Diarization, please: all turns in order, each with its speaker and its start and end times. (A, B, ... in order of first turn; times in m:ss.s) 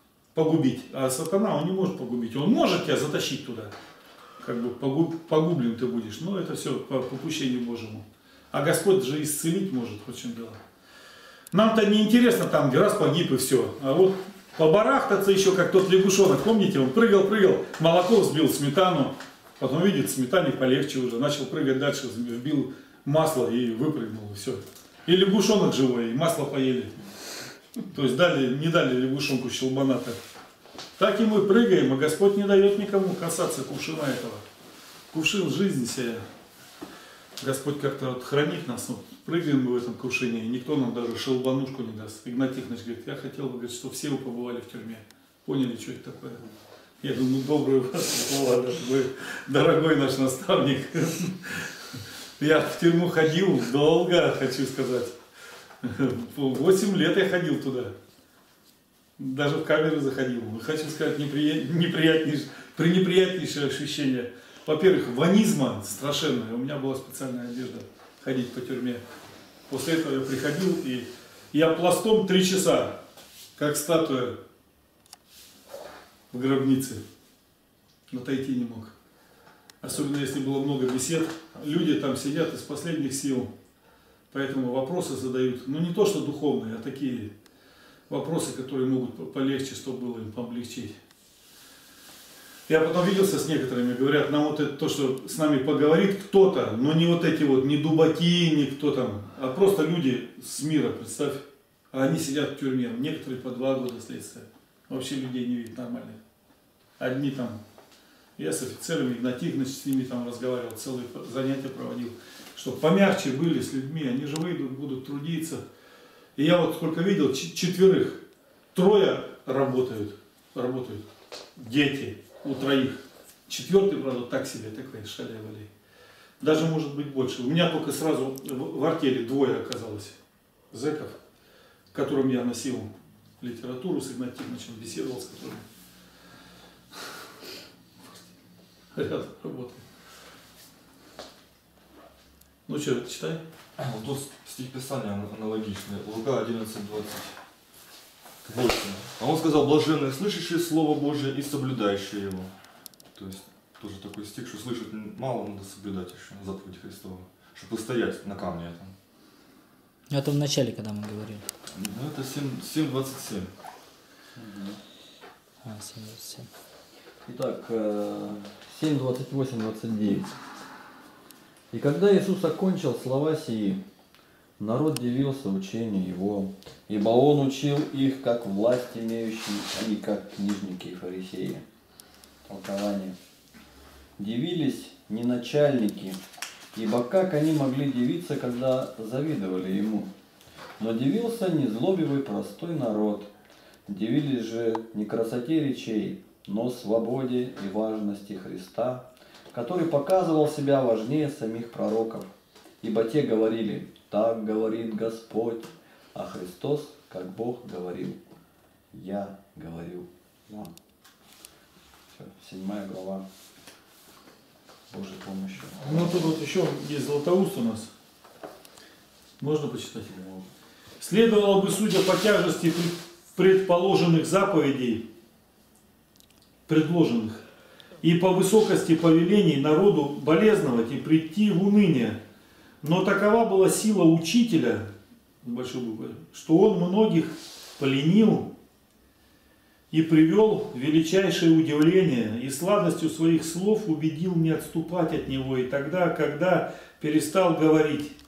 0:00.3-0:03.7 A
0:04.4-0:10.6 A
0:11.5-0:26.9 A
0:27.9-0:30.2 A
0:31.0-0:34.4 A
0:35.1-0:36.2 A
0:37.4-0:46.4 A
0:47.0-0:51.7 A
0:52.4-0:55.2 A
0:55.8-0:57.9 A
0:59.2-1:09.0 A
1:09.7-1:13.0 A
1:13.6-1:14.4 A
1:16.3-1:17.0 A
1:18.1-1:18.9 A
1:19.8-1:23.5 A
1:24.3-1:27.3 A
1:28.1-1:30.9 A
1:32.7-1:46.2 A
1:47.0-1:47.6 A
1:48.4-1:55.6 A
1:56.4-2:01.0 A
2:01.6-2:05.7 A
2:06.4-2:10.2 A
2:10.7-2:11.2 A
2:11.9-2:12.9 A
2:13.4-2:15.6 A
2:18.9-2:19.8 A
2:22.7-2:23.4 A
2:23.8-2:27.3 B
2:28.4-2:32.5 B
2:33.1-2:38.9 B
2:40.1-2:41.4 C
2:41.7-2:43.5 B
2:44.4-2:44.8 D
2:45.6-2:46.5 C
2:47.2-2:50.3 D
2:51.7-2:53.8 D
2:54.6-3:01.6 D
3:02.4-3:03.2 D
3:04.2-3:06.2 D
3:06.7-3:10.1 D
3:10.8-3:13.3 D
3:13.9-3:22.3 D
3:22.8-3:28.2 D
3:28.9-3:30.7 D
3:32.1-3:33.2 D
3:34.9-3:36.4 D
3:35.8-3:37.9 A
3:39.4-3:40.1 A
3:40.1-3:40.5 D
3:41.0-3:45.1 A
3:46.7-3:47.4 A
3:48.0-3:52.2 A
3:52.8-3:54.8 A
3:55.4-3:58.5 A
3:59.9-4:08.1 A